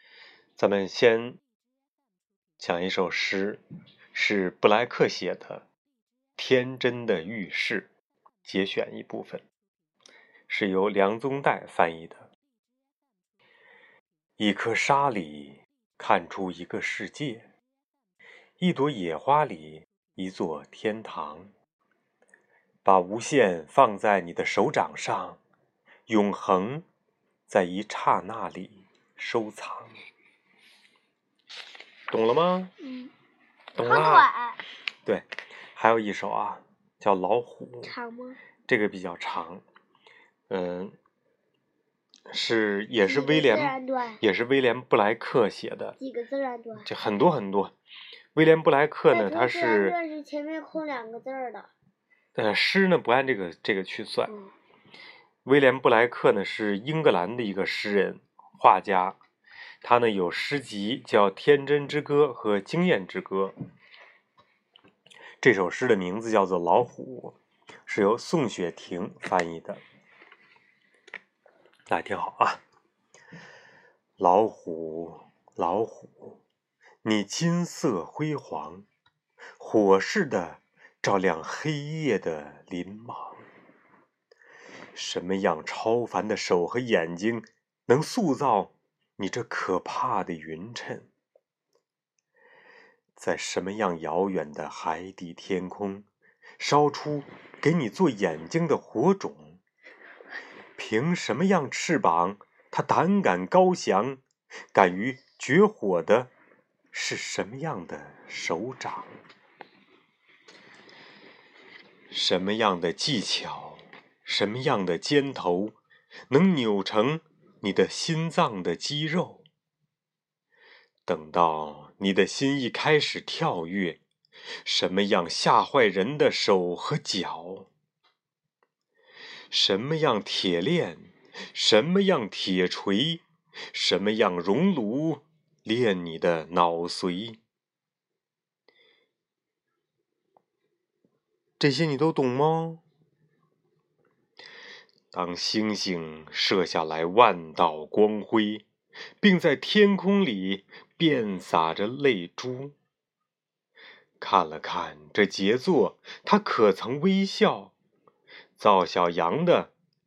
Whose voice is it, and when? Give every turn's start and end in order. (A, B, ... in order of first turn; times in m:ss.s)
0:00.6-0:01.4 A
0:02.6-0:03.6 A
0:04.1-0:05.6 A
0:06.4-0:07.9 A
0:08.4-0:09.4 A
0:10.5-0:12.3 A
0:14.4-0:17.5 A
0:18.6-0:21.5 A
0:22.8-0:25.4 A
0:26.1-0:26.9 A
0:27.5-0:30.0 A
0:32.1-0:32.7 A
0:32.8-0:33.1 B
0:33.8-0:34.3 A
0:33.8-0:34.6 B
0:35.1-0:37.9 A
0:37.8-0:38.4 B
0:38.7-0:39.6 A
0:40.5-0:41.0 A
0:42.3-0:46.0 A
0:43.0-0:44.2 B
0:46.0-0:46.9 B
0:46.8-0:47.7 A
0:48.4-0:50.0 A
0:49.1-0:51.7 B
0:52.4-0:54.3 A
0:55.4-0:59.2 A
0:59.8-1:03.5 A
1:05.4-1:07.4 A
1:07.9-1:09.8 A
1:11.9-1:12.6 A
1:14.2-1:16.4 A
1:17.0-1:18.9 A
1:19.6-1:23.4 A
1:25.0-1:31.1 A
1:33.2-1:36.1 A
1:36.6-1:39.6 A
1:40.8-1:44.2 A
1:44.7-1:46.3 A
1:46.9-1:49.2 A
1:52.1-1:55.8 A
1:56.3-1:59.4 A
2:01.1-2:04.0 A
2:04.6-2:07.7 A
2:09.5-2:17.4 A
2:21.6-2:22.8 A
2:25.1-2:28.6 A
2:29.2-2:32.8 A
2:34.2-2:37.7 A
2:38.6-2:39.7 A